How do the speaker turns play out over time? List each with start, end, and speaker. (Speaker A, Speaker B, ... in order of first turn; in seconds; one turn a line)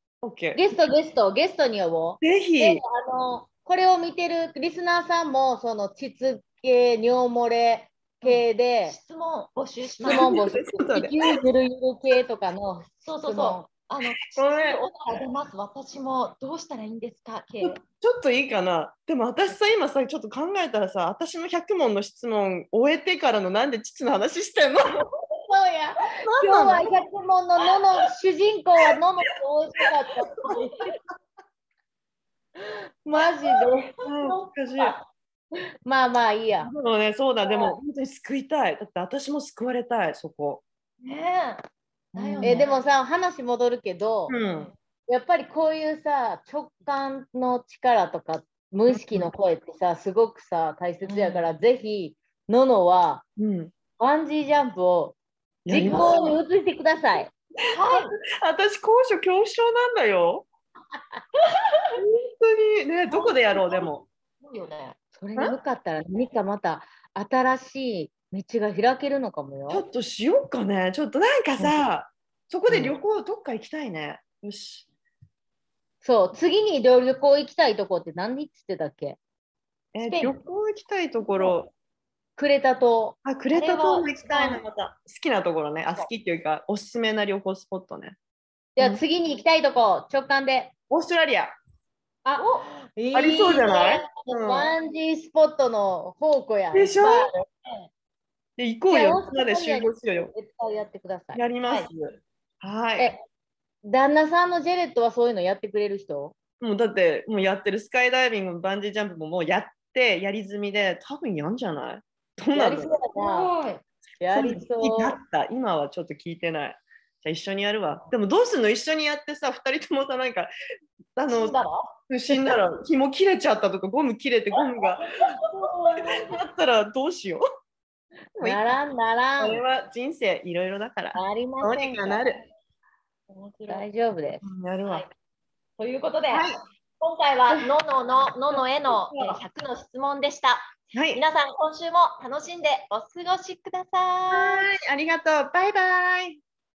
Speaker A: 0.2-0.6
Speaker B: 0.6-9.0
Speaker A: 2.2-2.8
Speaker C: 8.2-10.3
Speaker B: 10.0-13.7
Speaker A: 10.0-11.2
Speaker C: 13.0-17.8
Speaker A: 14.3-14.8
Speaker A: 17.6-25.0
Speaker B: 25.4-30.9
Speaker A: 26.2-26.9
Speaker C: 30.5-30.8
Speaker B: 33.1-34.0
Speaker C: 33.1-35.0
Speaker A: 34.0-35.0
Speaker B: 35.8-36.7
Speaker A: 36.6-40.6
Speaker C: 41.0-41.6
Speaker C: 42.1-42.9
Speaker A: 42.1-42.7
Speaker B: 42.4-44.4
Speaker A: 44.3-44.7
Speaker C: 44.4-44.7
Speaker B: 45.1-53.2
Speaker A: 48.9-49.3
Speaker C: 51.0-51.5
Speaker A: 53.4-53.7
Speaker B: 54.0-55.2
Speaker A: 55.7-56.1
Speaker B: 55.7-57.3
Speaker C: 55.8-56.3
Speaker C: 57.7-58.1
Speaker A: 58.4-60.5
Speaker C: 61.5-62.0
Speaker A: 62.0-64.0
Speaker C: 63.1-63.9
Speaker C: 64.4-65.0
Speaker B: 65.2-69.8
Speaker A: 69.7-74.9
Speaker B: 72.7-73.0
Speaker B: 76.0-79.2
Speaker A: 79.9-81.7
Speaker C: 80.0-80.4
Speaker B: 82.4-84.0
Speaker A: 83.2-88.2
Speaker C: 83.7-84.6
Speaker B: 88.8-90.7
Speaker A: 90.9-91.5
Speaker B: 92.2-97.3
Speaker C: 92.4-92.7
Speaker A: 93.1-94.7
Speaker A: 96.7-97.3
Speaker A: 98.6-100.3
Speaker B: 98.9-101.4
Speaker A: 101.3-103.1
Speaker B: 103.8-106.4
Speaker A: 106.6-112.9
Speaker B: 112.5-113.5
Speaker C: 113.2-113.8
Speaker B: 114.2-115.2
Speaker A: 114.3-120.5
Speaker A: 121.2-125.0
Speaker C: 121.3-121.9
Speaker C: 125.5-126.3
Speaker A: 126.2-127.4
Speaker A: 128.4-128.8
Speaker B: 128.4-129.6
Speaker A: 129.4-132.4
Speaker B: 131.1-132.3
Speaker C: 133.3-133.9
Speaker B: 133.7-134.4
Speaker A: 134.4-135.1
Speaker C: 135.8-144.7
Speaker A: 136.3-136.6
Speaker A: 140.9-141.2
Speaker A: 144.3-146.4